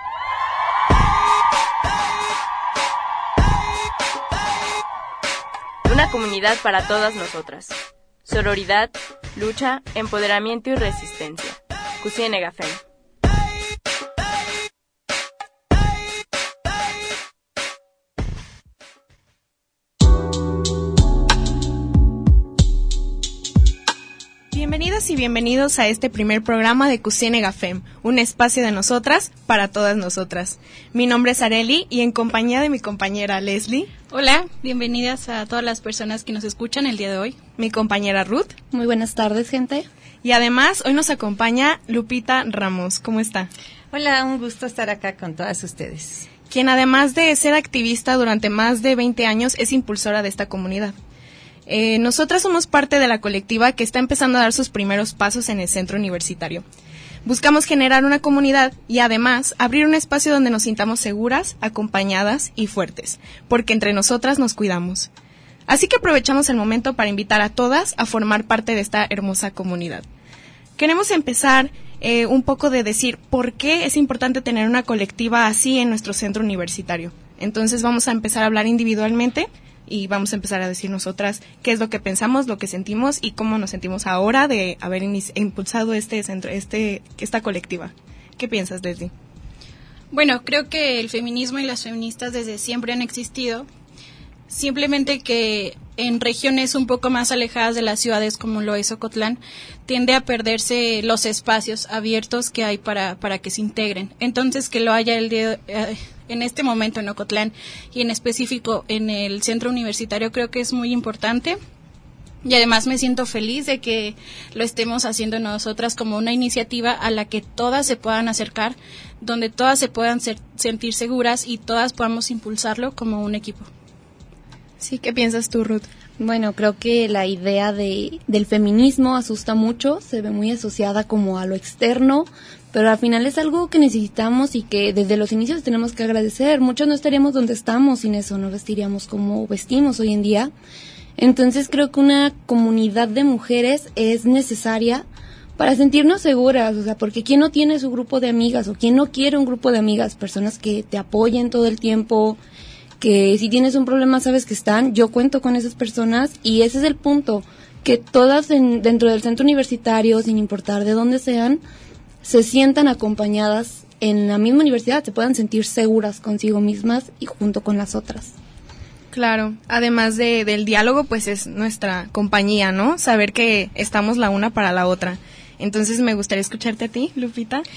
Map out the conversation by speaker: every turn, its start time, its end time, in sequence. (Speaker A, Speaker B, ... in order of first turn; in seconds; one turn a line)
Speaker A: 5.8-12.8
Speaker B: 24.5-33.9
Speaker C: 34.1-37.4
Speaker B: 37.6-38.5
Speaker D: 38.7-39.9
Speaker B: 40.2-43.5
Speaker E: 43.9-46.3
Speaker B: 46.5-51.0
Speaker B: 51.7-56.6
Speaker B: 57.2-65.1
Speaker B: 65.7-70.1
Speaker B: 70.8-89.1
Speaker C: 90.1-93.7
Speaker C: 94.5-111.6
Speaker C: 112.4-123.7
Speaker B: 124.8-125.9
Speaker D: 126.2-140.5
Speaker D: 141.2-145.1
Speaker D: 145.6-152.4
Speaker D: 153.0-161.6
Speaker D: 162.2-168.3
Speaker B: 169.1-177.7